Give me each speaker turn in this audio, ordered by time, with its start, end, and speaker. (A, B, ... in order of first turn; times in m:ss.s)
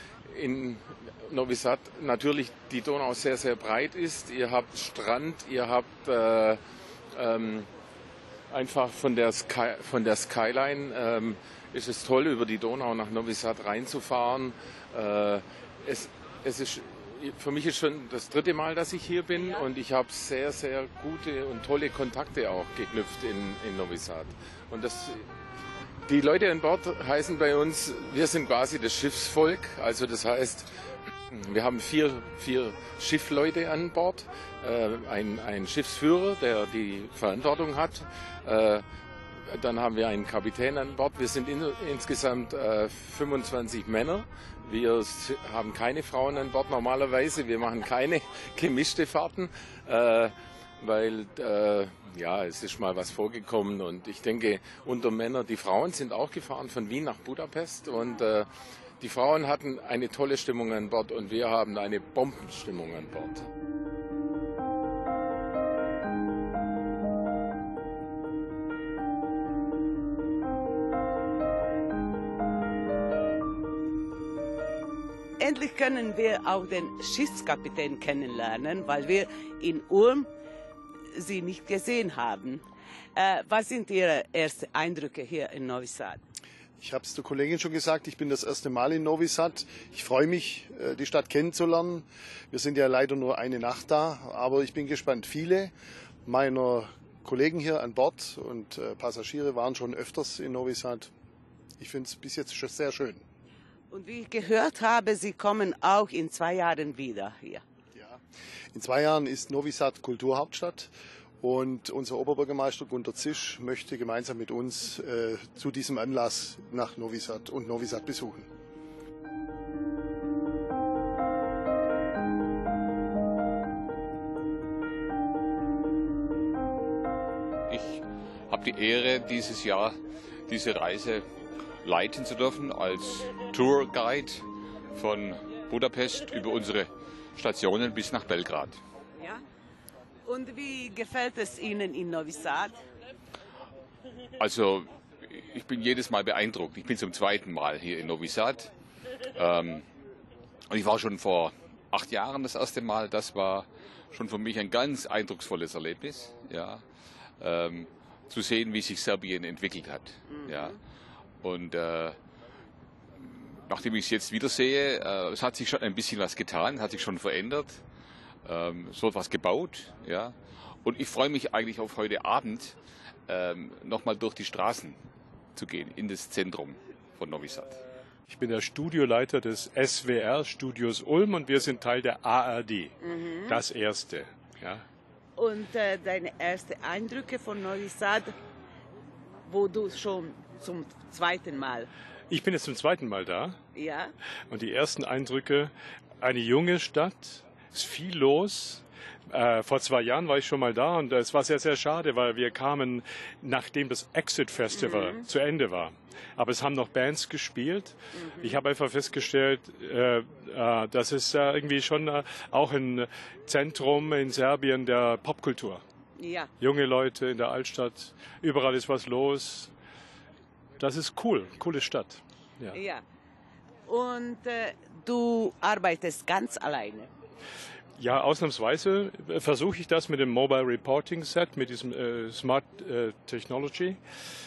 0:00.3-0:06.6 A
0:07.2-0:07.7 A
0:08.5-0:25.2 A
0:26.1-0:30.7 A
0:31.3-0:38.8 A
0:39.5-0:58.5 A
0:59.0-1:03.5 A
1:15.4-1:20.3 B
1:21.2-1:22.6 B
1:23.2-1:26.2 B
1:26.8-1:35.8 C
1:36.3-1:41.1 C
1:41.8-1:43.2 C
1:43.9-1:47.6 B
1:47.9-1:48.2 C
1:48.7-1:58.5 C
2:07.7-2:10.0 D
2:10.5-2:11.2 D
2:11.8-2:18.8 D
2:20.3-2:22.8 B
2:24.4-2:28.7 D
2:29.3-2:29.8 D
2:30.7-2:36.8 D
2:37.4-2:40.8 D
2:40.3-2:40.8 B
2:41.4-2:42.2 D
2:43.2-2:47.8 D
2:48.4-2:52.8 D
2:53.3-2:55.0 D
2:55.6-2:57.8 D
2:58.3-3:02.9 E
3:03.0-3:03.6 B
3:03.5-3:04.8 E
3:05.4-3:08.3 B
3:09.5-3:11.9 B
3:12.3-3:13.6 E
3:13.8-3:14.1 B
3:14.5-3:35.8 E
3:24.7-3:25.3 B
3:28.2-3:28.6 B
3:36.2-3:36.5 B
3:36.6-3:39.7 E
3:40.8-3:42.8 E
3:42.7-3:43.0 B
3:43.9-3:47.1 B
3:48.0-3:54.0 E